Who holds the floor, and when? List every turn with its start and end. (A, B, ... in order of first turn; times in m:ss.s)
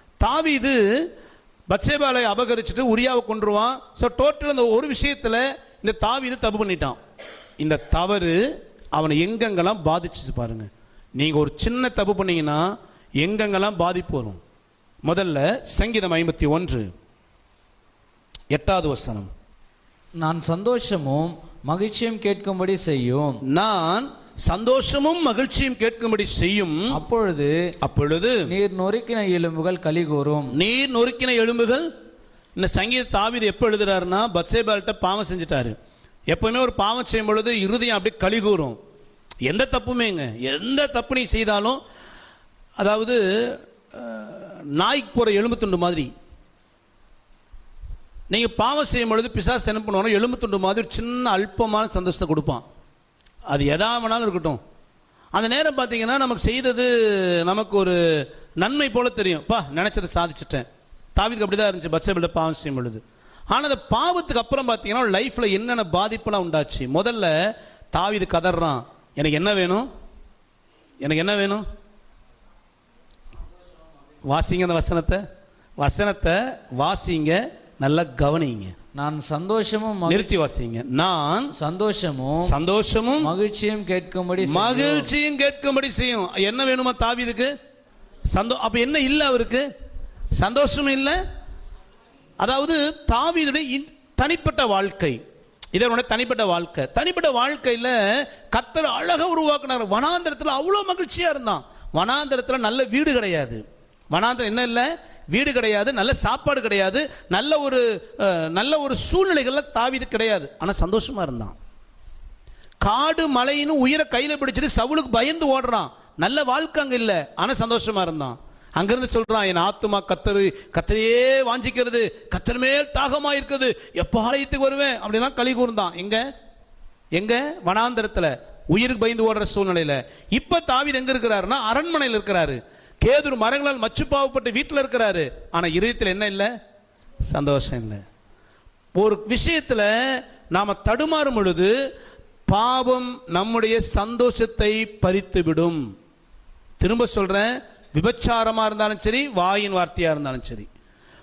0:00.2-0:01.0 A
0:01.7-0:07.0 A
0:07.6-0:08.4 A
0:08.9-0:12.6 A
0:13.2-0:14.4 A
0:15.0-0:16.9 A
0:18.5-0:19.3 A
0:20.2-0:23.4 B
0:23.5-0:27.0 A
0:26.9-0:27.5 B
0:27.8-0:28.5 A
0:28.5-0:30.6 B
0:30.5-0:31.9 A
0:32.6-0:35.7 A
0:36.3-0:38.8 A
0:39.4-0:41.8 A
0:42.8-0:46.1 A
0:48.3-0:52.6 A
0:53.5-0:54.6 A
0:55.3-0:58.0 A
0:58.6-1:00.6 A
1:01.2-1:07.3 A
1:07.9-1:09.9 A
1:11.0-1:11.6 A
1:14.2-1:15.2 A
1:15.8-1:18.7 A
1:19.0-1:20.4 B
1:20.1-1:21.5 A
1:21.6-1:22.5 B
1:22.4-1:23.3 A
1:23.2-1:25.1 B
1:24.4-1:27.5 A
1:28.3-1:29.6 A
1:30.4-1:31.2 A
1:32.4-1:35.2 A
1:35.7-1:51.5 A
1:52.8-2:06.2 A
2:07.1-2:16.5 A
2:17.2-2:18.0 A
2:18.9-2:21.7 A
2:22.5-2:25.8 A
2:26.8-2:30.7 A